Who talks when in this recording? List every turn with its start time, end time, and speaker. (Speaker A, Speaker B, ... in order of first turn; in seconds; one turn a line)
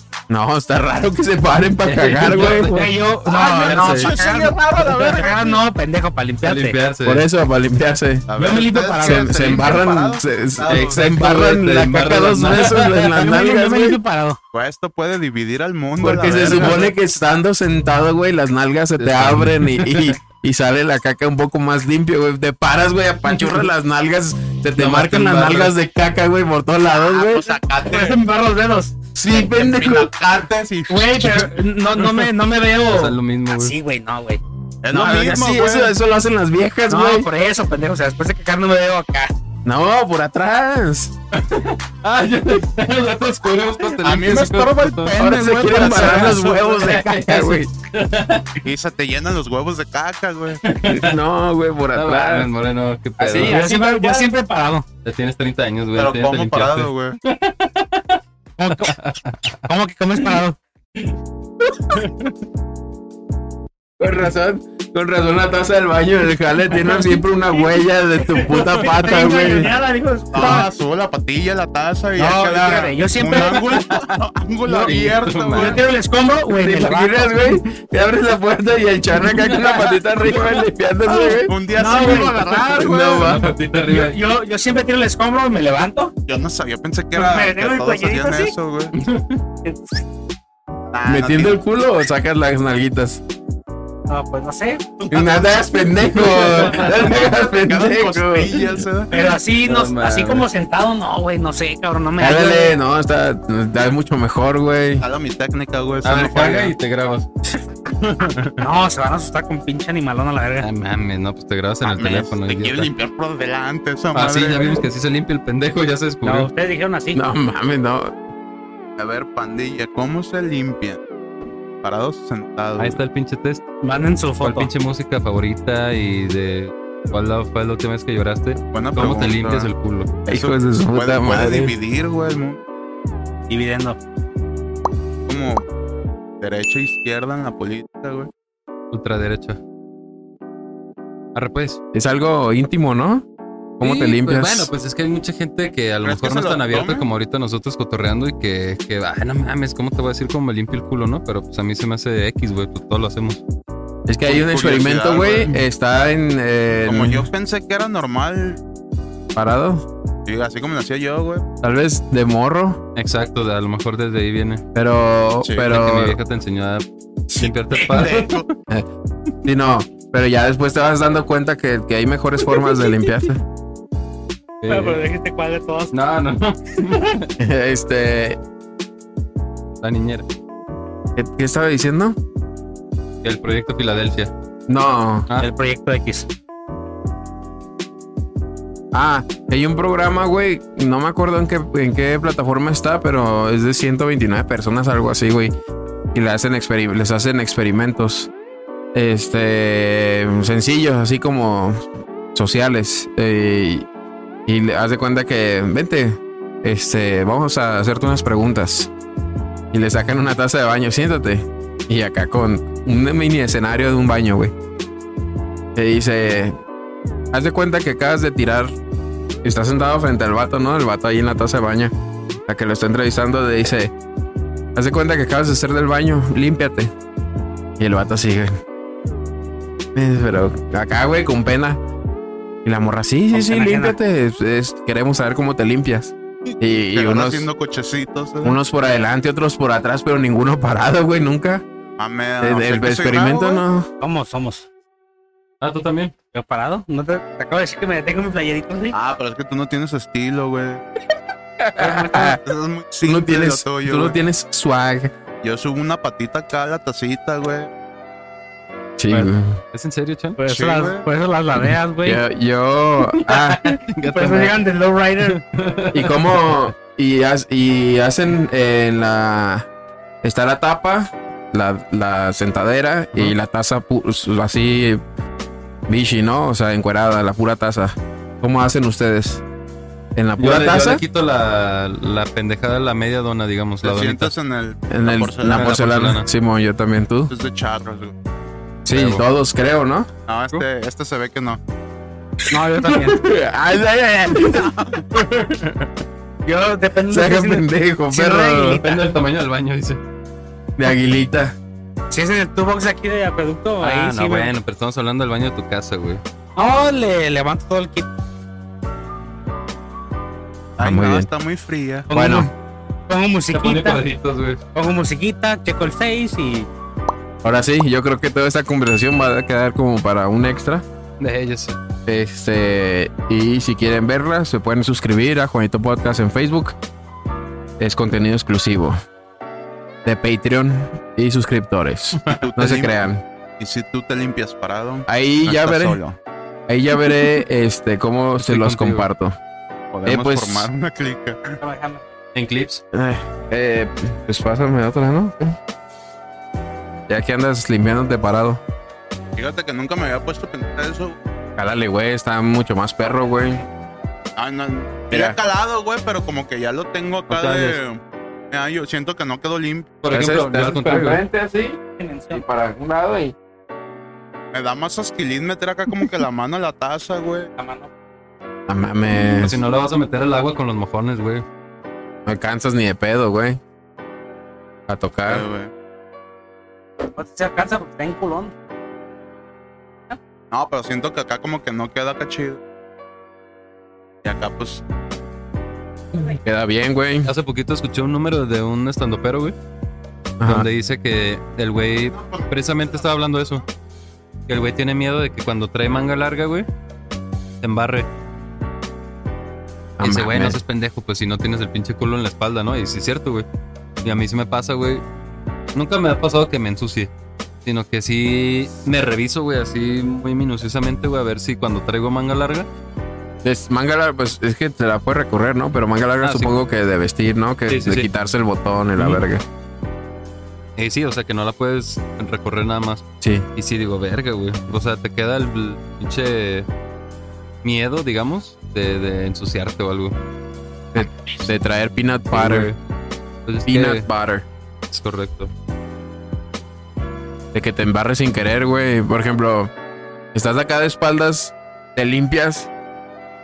Speaker A: 0.3-2.9
Speaker B: 1.8-2.9
Speaker C: 2.6-6.8
Speaker D: 3.3-5.6
Speaker B: 3.5-4.1
Speaker B: 6.4-7.3
Speaker A: 7.0-8.3
Speaker D: 8.3-11.1
Speaker C: 8.4-9.7
Speaker A: 9.0-14.0
Speaker B: 10.7-13.2
Speaker C: 13.1-14.4
Speaker D: 14.5-16.9
Speaker A: 16.0-27.4
Speaker B: 19.0-20.1
Speaker B: 24.8-25.7
Speaker D: 27.1-28.2
Speaker C: 27.3-28.9
Speaker A: 29.1-30.1
Speaker D: 29.2-31.6
Speaker C: 30.9-34.4
Speaker B: 32.9-33.7
Speaker D: 34.8-35.9
Speaker A: 34.9-37.3
Speaker C: 36.9-39.3
Speaker A: 39.6-41.1
Speaker B: 41.3-45.1
Speaker D: 44.0-46.6
Speaker A: 45.1-47.7
Speaker C: 45.5-47.0
Speaker B: 46.8-48.6
Speaker D: 48.6-50.6
Speaker B: 50.6-51.2
Speaker A: 50.8-52.5
Speaker B: 51.9-53.6
Speaker A: 53.2-54.3
Speaker C: 53.3-54.9
Speaker B: 55.0-58.2
Speaker D: 56.0-57.2
Speaker C: 58.6-59.0
Speaker B: 58.7-59.6
Speaker C: 59.6-60.6
Speaker B: 61.9-62.3
Speaker A: 64.0-69.7
Speaker C: 68.3-70.7
Speaker D: 70.3-75.8
Speaker C: 72.2-74.0
Speaker C: 74.6-75.0
Speaker B: 74.8-75.8
Speaker C: 75.5-77.4
Speaker A: 76.6-82.2
Speaker B: 79.2-80.6
Speaker C: 81.1-83.2
Speaker D: 81.5-83.3
Speaker A: 82.7-83.5
Speaker B: 83.1-84.2
Speaker C: 83.8-86.1
Speaker D: 86.3-88.9
Speaker C: 87.1-88.5
Speaker B: 88.9-89.4
Speaker C: 89.6-90.0
Speaker D: 90.9-91.6
Speaker A: 91.0-93.2
Speaker C: 94.1-94.8
Speaker D: 95.0-99.1
Speaker A: 95.1-98.8
Speaker C: 99.1-102.7
Speaker B: 99.6-100.5
Speaker A: 102.2-105.0
Speaker D: 105.0-106.7
Speaker B: 106.0-107.3
Speaker B: 107.9-108.6
Speaker C: 108.6-110.7
Speaker B: 110.6-112.9
Speaker D: 111.8-114.8
Speaker B: 114.1-116.5
Speaker C: 116.2-117.2
Speaker A: 117.1-118.2
Speaker D: 119.0-121.0
Speaker D: 121.8-123.0
Speaker B: 122.8-123.6
Speaker C: 123.8-124.7
Speaker B: 124.4-130.1
Speaker D: 128.7-129.7
Speaker D: 130.2-132.6
Speaker A: 130.3-131.7
Speaker C: 133.5-134.0
Speaker D: 135.3-135.7
Speaker D: 136.4-138.3
Speaker B: 138.9-139.6
Speaker B: 141.3-141.8
Speaker A: 141.9-143.2
Speaker A: 143.8-144.7
Speaker B: 143.8-153.4
Speaker D: 146.0-147.1
Speaker A: 154.1-157.3
Speaker D: 154.2-155.6
Speaker D: 156.8-158.6
Speaker A: 159.3-159.8
Speaker D: 160.2-161.4
Speaker A: 161.6-162.8
Speaker B: 162.9-164.6
Speaker A: 164.7-166.2
Speaker D: 165.4-165.7
Speaker B: 165.7-168.4
Speaker D: 167.3-168.5
Speaker A: 169.4-173.4
Speaker B: 174.6-175.0
Speaker C: 174.7-175.9
Speaker B: 175.9-177.3
Speaker A: 177.4-178.4
Speaker B: 179.8-180.2
Speaker A: 181.2-182.2
Speaker B: 183.2-184.3
Speaker A: 184.7-185.3
Speaker C: 185.4-186.3
Speaker A: 188.9-195.5
Speaker A: 196.1-198.3
Speaker A: 198.9-203.9
Speaker A: 204.4-208.9
Speaker A: 209.7-214.5
Speaker A: 215.7-216.6
Speaker A: 217.3-218.7
Speaker A: 219.4-221.9
Speaker A: 222.5-223.9
Speaker A: 224.7-226.9
Speaker A: 227.8-228.6
Speaker A: 229.9-231.8
Speaker A: 232.6-237.5
Speaker C: 233.3-234.0
Speaker D: 236.5-238.6
Speaker A: 238.4-241.6
Speaker D: 242.0-243.6
Speaker A: 242.4-243.9
Speaker C: 244.0-244.7
Speaker B: 245.6-246.1
Speaker C: 246.3-248.9
Speaker D: 248.9-250.8
Speaker A: 251.6-252.4
Speaker C: 251.8-252.4
Speaker D: 252.4-254.2
Speaker A: 253.0-255.1
Speaker D: 255.4-257.7
Speaker A: 259.0-259.6
Speaker B: 259.7-260.4
Speaker C: 260.4-262.2
Speaker D: 260.4-261.1
Speaker A: 261.6-263.6
Speaker B: 263.1-264.6
Speaker C: 264.0-265.4
Speaker B: 265.2-266.5
Speaker A: 265.9-269.7
Speaker A: 270.2-275.0
Speaker A: 275.9-279.4
Speaker A: 280.1-281.0
Speaker B: 280.4-284.3
Speaker D: 283.8-285.8
Speaker A: 284.9-287.3
Speaker B: 285.4-286.3
Speaker D: 287.3-288.1
Speaker A: 288.8-290.1
Speaker B: 288.9-289.2
Speaker D: 290.3-291.6
Speaker C: 292.5-293.2
Speaker A: 292.9-294.7
Speaker D: 294.4-295.0
Speaker B: 295.1-295.9
Speaker C: 296.4-299.0
Speaker A: 297.1-298.8
Speaker B: 298.8-300.0
Speaker A: 300.8-301.5
Speaker C: 302.1-304.5
Speaker B: 303.8-306.2
Speaker C: 306.6-308.1
Speaker D: 310.8-312.1
Speaker A: 310.8-311.3
Speaker A: 312.1-312.5
Speaker C: 312.1-312.5
Speaker C: 313.1-314.0
Speaker B: 313.5-314.6
Speaker C: 314.7-316.7
Speaker A: 317.4-320.8
Speaker B: 321.2-321.8
Speaker A: 322.1-326.8
Speaker A: 327.8-329.0
Speaker A: 330.0-333.2
Speaker D: 332.3-333.1
Speaker D: 333.6-336.2
Speaker A: 335.1-336.0
Speaker A: 336.7-339.3
Speaker B: 338.4-339.1
Speaker D: 339.9-341.6
Speaker A: 340.1-340.7
Speaker C: 341.6-342.0
Speaker B: 342.3-342.8
Speaker A: 342.9-345.6
Speaker A: 347.1-348.6
Speaker D: 349.4-351.2
Speaker A: 351.6-353.6
Speaker D: 354.4-359.9
Speaker A: 355.1-355.4
Speaker B: 357.3-357.8
Speaker B: 360.0-361.2
Speaker A: 360.1-363.3
Speaker C: 362.0-362.4
Speaker D: 364.5-367.5
Speaker C: 367.6-367.9
Speaker A: 368.7-369.6
Speaker B: 369.4-371.4
Speaker A: 372.2-373.6
Speaker A: 374.9-375.4
Speaker D: 375.3-375.7
Speaker C: 377.1-378.5
Speaker D: 380.5-382.6
Speaker D: 384.2-384.8
Speaker A: 386.3-387.3
Speaker B: 387.2-389.6
Speaker A: 390.4-390.7
Speaker B: 390.4-393.6
Speaker D: 392.1-393.0
Speaker B: 394.5-396.7
Speaker B: 397.6-398.1
Speaker A: 400.0-400.6
Speaker B: 400.0-403.4
Speaker B: 404.0-405.0
Speaker B: 405.7-407.1
Speaker B: 407.6-412.7
Speaker A: 413.4-419.4
Speaker B: 416.2-416.6
Speaker B: 417.7-418.1
Speaker B: 418.9-419.2
Speaker B: 420.8-423.0
Speaker A: 423.2-423.5
Speaker B: 423.6-426.7
Speaker B: 427.6-430.1
Speaker A: 430.9-432.7
Speaker B: 432.3-432.8
Speaker B: 433.4-434.1
Speaker A: 433.7-434.4
Speaker B: 434.9-435.5
Speaker A: 437.5-439.7
Speaker A: 440.3-442.7